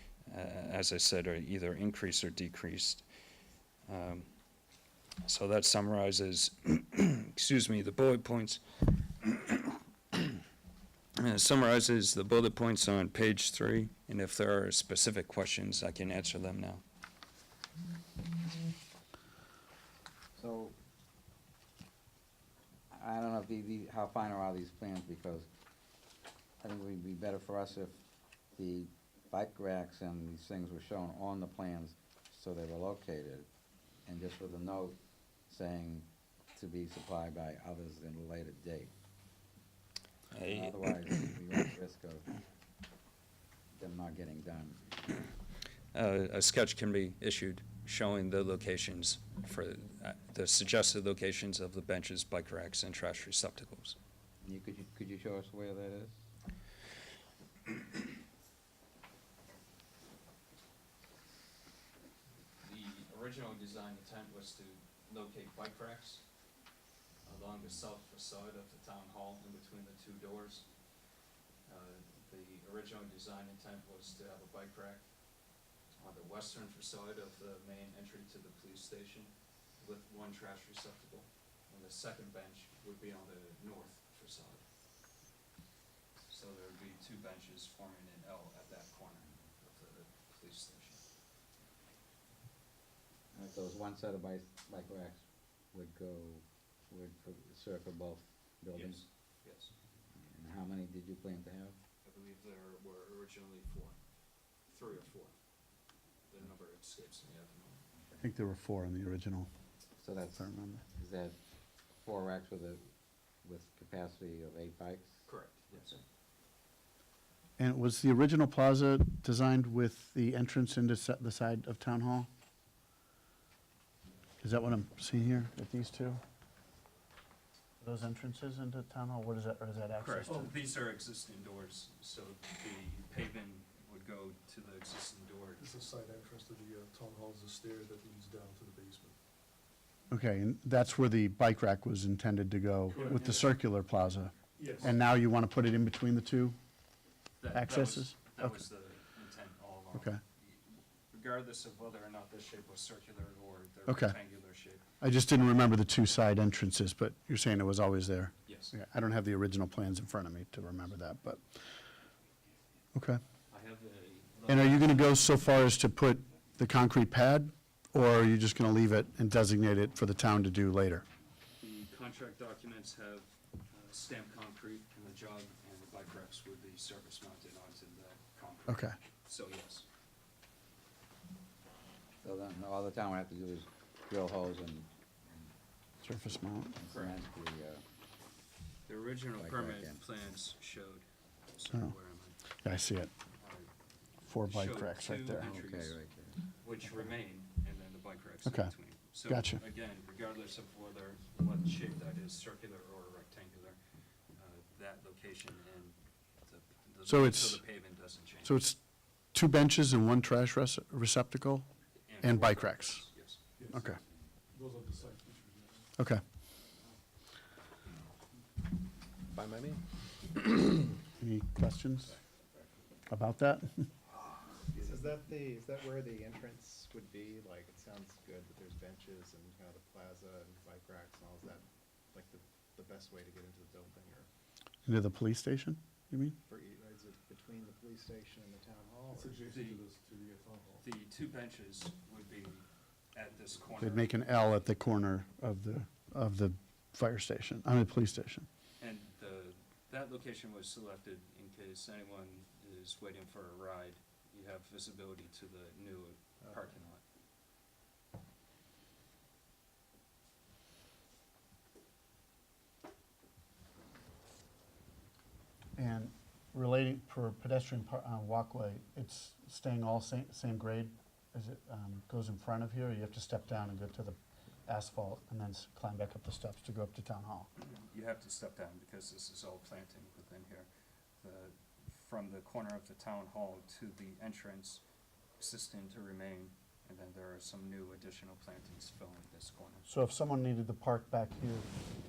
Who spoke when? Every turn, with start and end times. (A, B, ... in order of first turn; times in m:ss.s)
0:00.3-0:03.0 A
0:03.9-0:04.3 A
0:05.2-0:10.4 A
0:11.2-0:16.8 A
0:20.4-0:20.7 B
0:22.9-0:25.5 B
0:26.6-0:28.0 B
0:28.6-0:33.5 B
0:34.1-0:35.0 B
0:35.5-0:38.9 B
0:40.3-0:40.8 A
0:40.4-0:42.3 B
0:43.8-0:44.8 B
0:45.9-0:54.0 A
0:54.4-0:56.2 B
1:02.6-1:06.3 A
1:07.2-1:10.7 A
1:11.7-1:24.6 A
1:26.3-1:31.0 A
1:33.3-1:39.0 B
1:38.7-1:39.7 A
1:40.2-1:41.8 B
1:42.0-1:44.0 A
1:44.7-1:45.4 A
1:46.3-1:47.8 A
1:48.2-1:49.5 C
1:50.0-1:51.4 B
1:50.2-1:50.8 C
1:52.0-1:52.8 B
1:53.4-1:55.2 B
1:55.3-1:56.0 A
1:57.6-2:02.3 C
2:04.4-2:06.2 C
2:07.8-2:10.5 C
2:10.0-2:15.6 A
2:15.6-2:19.2 D
2:20.1-2:26.6 C
2:22.9-2:23.7 A
2:24.6-2:24.9 D
2:27.4-2:34.8 A
2:27.5-2:28.6 C
2:29.9-2:30.2 C
2:33.9-2:34.2 C
2:35.0-2:41.4 C
2:38.5-2:38.7 A
2:42.9-2:43.2 C
2:43.5-2:45.1 A
2:44.5-2:51.0 C
2:51.6-2:59.8 A
2:58.7-2:59.0 C
3:02.2-3:05.5 B
3:06.0-3:06.8 C
3:06.0-3:07.8 B
3:06.9-3:07.2 A
3:08.9-3:12.4 A
3:09.4-3:10.0 B
3:12.6-3:13.1 C
3:13.4-3:13.7 A
3:14.2-3:15.5 C
3:14.4-3:16.0 A
3:15.4-3:16.4 B
3:16.6-3:23.8 A
3:18.4-3:18.7 C
3:19.3-3:19.6 C
3:24.4-3:28.6 A
3:27.1-3:27.7 C
3:28.4-3:28.8 C
3:29.3-3:31.7 C
3:32.1-3:33.4 A
3:32.2-3:33.1 C
3:33.6-3:34.0 D
3:33.7-3:34.0 C
3:34.5-3:35.9 D
3:36.0-3:36.2 C
3:39.3-3:40.5 E
3:41.2-3:42.1 C
3:42.1-3:42.7 E
3:43.1-3:43.9 C
3:44.7-3:54.3 E
3:54.8-3:56.4 C
3:56.5-3:59.5 E
3:59.1-4:00.8 D
3:59.5-3:59.8 A
4:00.8-4:04.5 A
4:03.8-4:08.5 C
4:08.8-4:17.0 A
4:25.8-4:37.5 C
4:37.6-4:40.7 A
4:41.2-4:44.8 A
4:45.4-4:49.9 A
4:49.9-4:51.7 C